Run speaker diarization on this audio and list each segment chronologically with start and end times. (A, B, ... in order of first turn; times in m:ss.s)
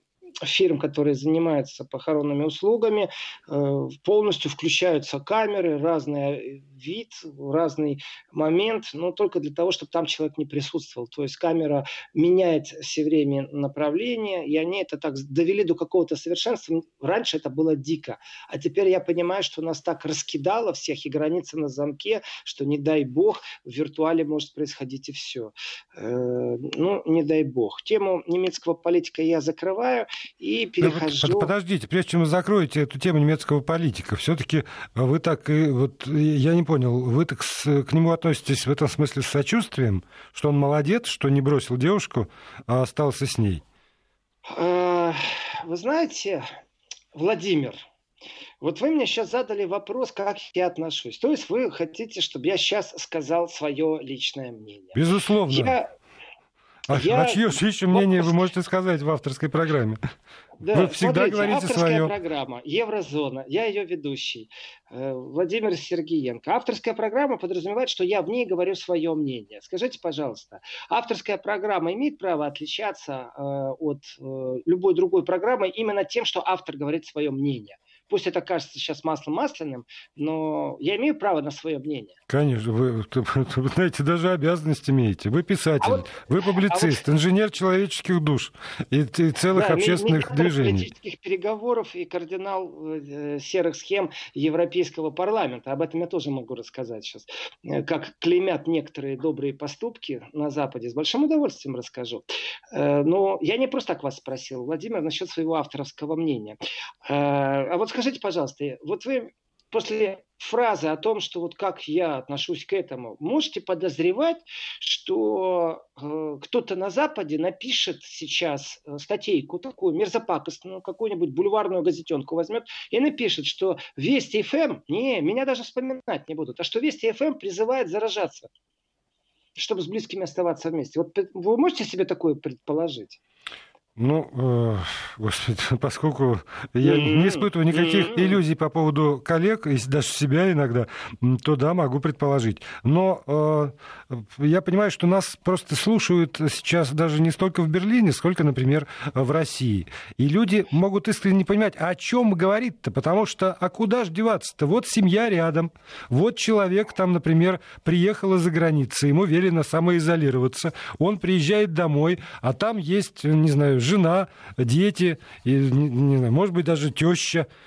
0:00.4-0:31.5 A
0:30.8-0:43.6 B
0:44.5-0:46.4 A
0:47.1-0:47.8 A
0:48.6-0:55.9 A
0:54.9-0:55.7 B
0:56.9-1:00.0 B
0:56.9-0:58.4 A
1:00.6-1:22.2 A
1:00.7-1:02.1 B
1:22.3-1:30.9 B
1:25.8-1:27.0 A
1:29.5-2:08.5 A
2:09.6-2:13.2 A
2:14.0-2:47.5 B
2:16.8-2:18.4 A